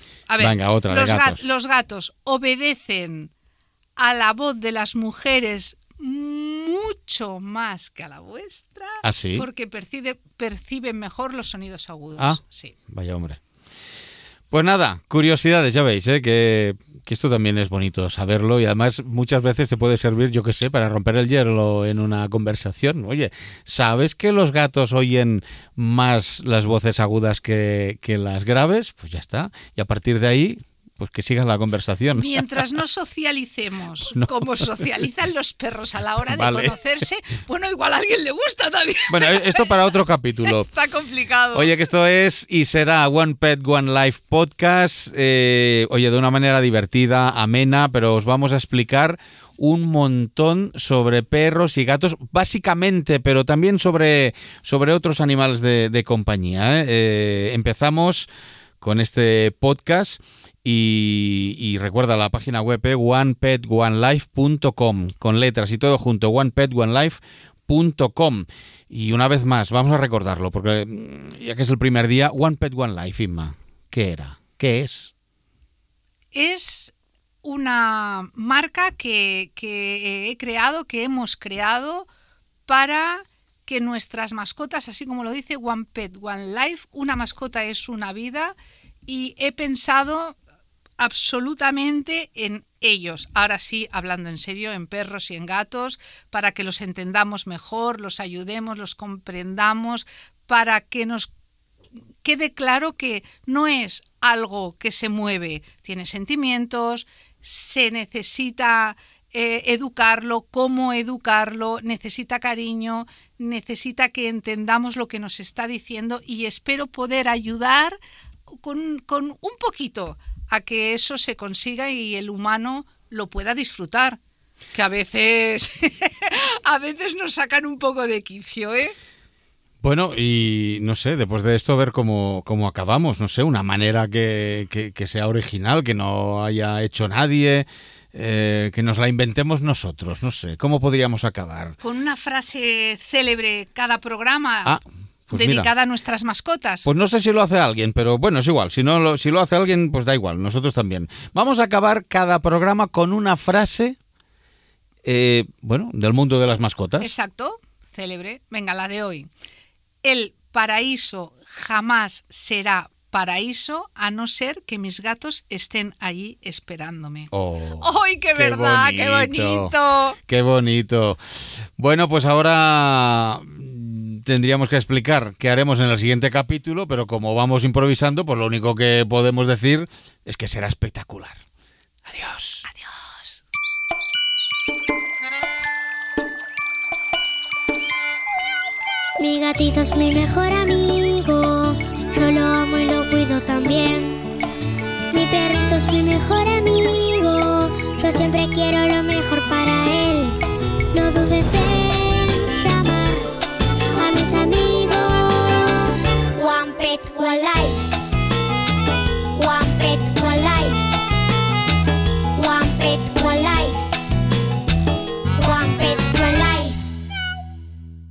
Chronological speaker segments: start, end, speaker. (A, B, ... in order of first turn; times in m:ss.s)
0:00.3-0:03.3 A
0:00.4-0:01.4 B
0:04.0-0:12.8 A
0:09.0-0:09.4 B
0:12.2-0:13.4 B
0:14.5-0:32.3 B
0:32.2-0:41.7 A
0:34.2-0:34.6 B
0:36.3-0:36.8 B
0:39.1-0:40.7 B
0:41.5-0:58.3 B
0:58.8-1:15.1 B
1:16.3-1:22.1 A
1:22.7-1:28.5 A
1:29.1-1:30.4 A
1:31.0-1:41.3 A
1:42.2-1:58.0 A
1:58.6-2:04.2 A
2:04.7-2:09.0 A
2:09.8-2:21.8 B
2:21.8-2:24.8 A
2:24.6-2:25.7 B
2:25.3-2:26.9 A
2:26.8-2:34.0 B
2:35.0-2:37.1 B
2:37.0-2:39.3 A
2:40.0-2:50.2 A
2:47.3-2:49.7 B
2:50.3-2:51.2 B
2:51.8-3:01.4 B
3:02.1-3:02.7 B
3:02.7-3:03.4 A
3:09.2-3:14.2 C
3:15.1-3:20.4 C
3:20.9-3:23.3 C
3:24.0-3:27.9 C
3:29.3-3:30.9 C
3:32.4-3:33.9 C
3:35.4-3:36.9 C